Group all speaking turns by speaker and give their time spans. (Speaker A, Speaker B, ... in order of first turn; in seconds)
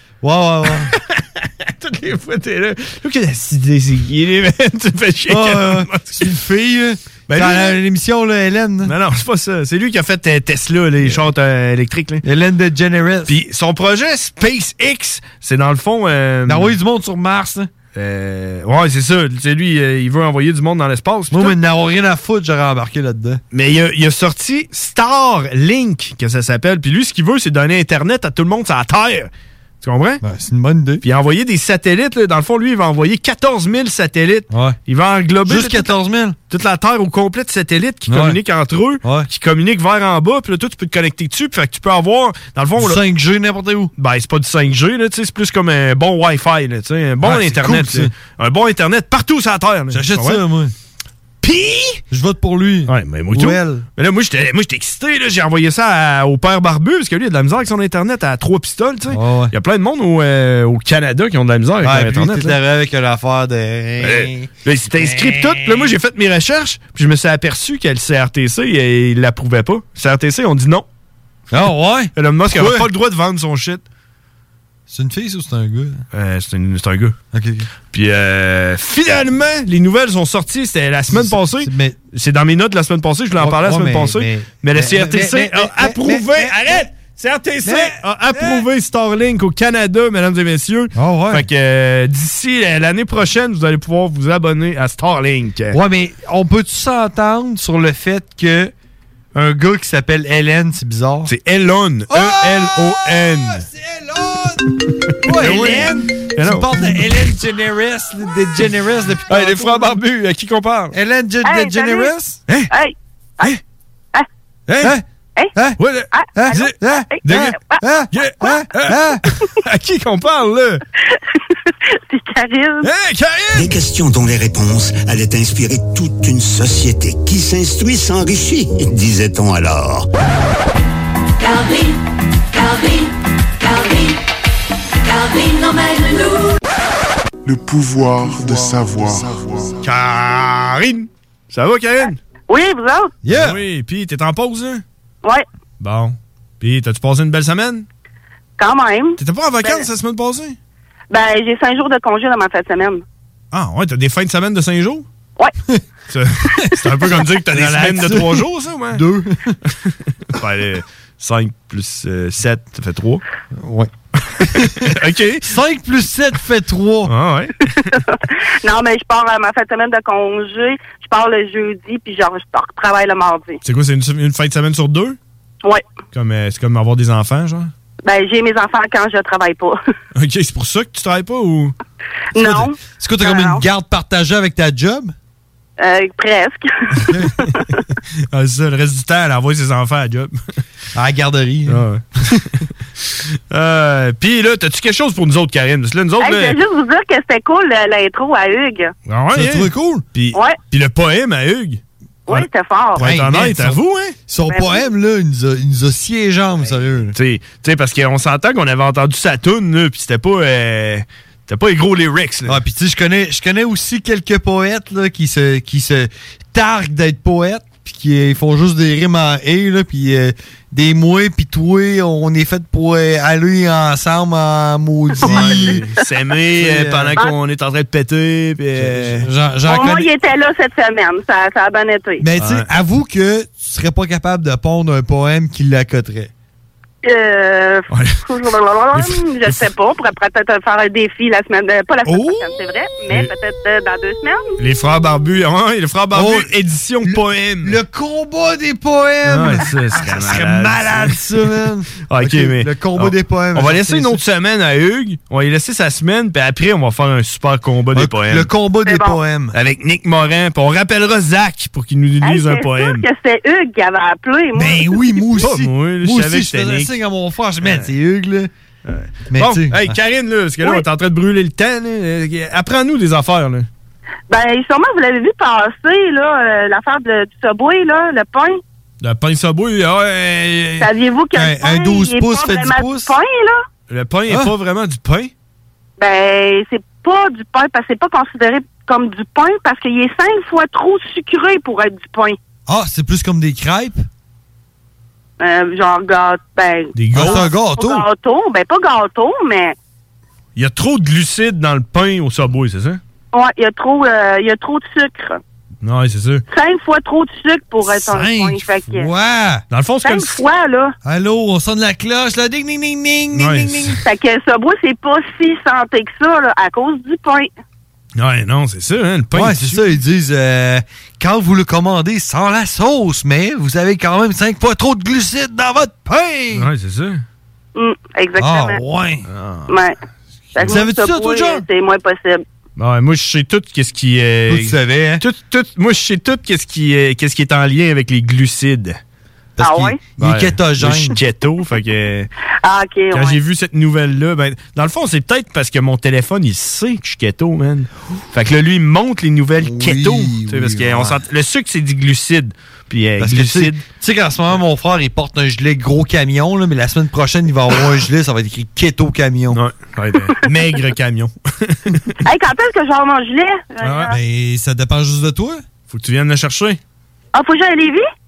Speaker A: 0.2-0.9, 5.3-8.9, 12.2-13.4, 16.4-17.7, 21.3-23.4, 30.2-31.0, 34.5-34.8, 35.5-36.4, 38.1-38.4, 39.0-39.3, 42.8-43.9, 47.2-48.1, 49.9-50.7, 52.1-53.8, 59.1-59.5, 61.8-65.9, 71.5-72.9, 74.9-76.0, 77.3-77.7, 81.1-82.0, 83.4-86.8, 87.6-88.6, 91.0-91.5, 95.7-98.7, 99.3-101.3, 102.1-104.6, 105.2-109.9, 110.9-112.4, 115.5-115.8, 116.3-119.2, 143.2-143.6, 157.0-159.6, 163.5-163.9, 164.5-167.1, 182.3-185.1, 190.9-191.8, 199.3-200.0, 203.0-207.1, 212.4-225.9, 226.6-227.2, 228.8-230.1, 232.2-236.3, 246.1-246.5, 247.0-254.2, 257.9-259.5, 264.6-268.5, 269.3-270.0, 281.3-283.1, 292.7-294.0, 297.1-298.0, 307.9-309.6, 311.0-314.0, 319.3-326.7, 328.4-329.2, 330.6-331.6, 334.5-335.2, 339.6-341.2, 349.6-351.2, 353.2-359.6, 364.1-365.6
Speaker B: 0.9-6.2, 7.3-7.7, 8.8-12.2, 13.3-16.7, 17.9-21.6, 23.5-29.3, 29.8-30.2, 31.0-35.9, 36.5-43.0, 44.0-50.4, 51.4-52.0, 52.9-62.5, 64.0-70.8, 72.2-73.8, 76.1-77.1, 77.9-95.8, 101.2-103.6, 105.3-107.2, 109.3-111.0, 114.7-115.0, 115.8-117.5, 118.1-120.8, 122.8-123.7, 139.8-142.2, 143.3-144.8, 145.8-147.8, 149.2-150.6, 153.5-155.1, 156.1-159.0, 160.3-163.2, 164.4-165.5, 167.1-167.8, 173.6-175.2, 176.1-177.7, 180.1-181.7, 188.3-190.3, 191.7-192.5, 193.5-196.6, 199.1-204.1, 207.1-212.6, 225.2-229.3, 232.3-232.7, 237.9-238.2, 238.9-239.6, 242.1-242.4, 244.6-247.8, 249.2-251.2, 252.0-258.5, 259.5-263.1, 265.4-266.9, 267.6-267.9, 268.8-273.7, 279.0-280.9, 283.9-285.3, 296.9-297.5, 300.6-303.0, 305.8-306.4, 309.7-310.4, 313.3-314.0, 318.1-319.9, 326.5-327.2, 329.3-329.7, 332.8-339.0, 340.2-342.3, 343.1-353.8, 359.5-362.1, 363.8-364.1, 365.9-366.8
Speaker C: 111.4-112.1, 112.7-113.5, 116.1-117.8, 121.9-122.9, 142.5-143.1, 148.6-149.8, 151.1-153.0, 167.9-173.6, 178.0-179.8, 182.3-183.6, 185.8-187.1, 196.2-198.9, 202.3-203.0, 204.5-204.8, 229.7-232.2, 237.0-244.6, 258.9-259.2, 262.2-265.2, 274.3-278.6, 280.8-283.6, 286.0-292.4, 295.4-299.7, 303.3-305.4, 306.5-309.1, 310.0-310.9, 314.0-317.5, 327.7-328.8, 329.7-330.0, 330.5-332.4, 339.6-340.0, 342.6-343.4, 362.2-364.1, 367.3-368.1
Speaker D: 123.5-130.1
Speaker E: 131.4-131.9, 132.5-133.0, 133.6-134.1, 135.1-136.4
Speaker F: 137.4-139.7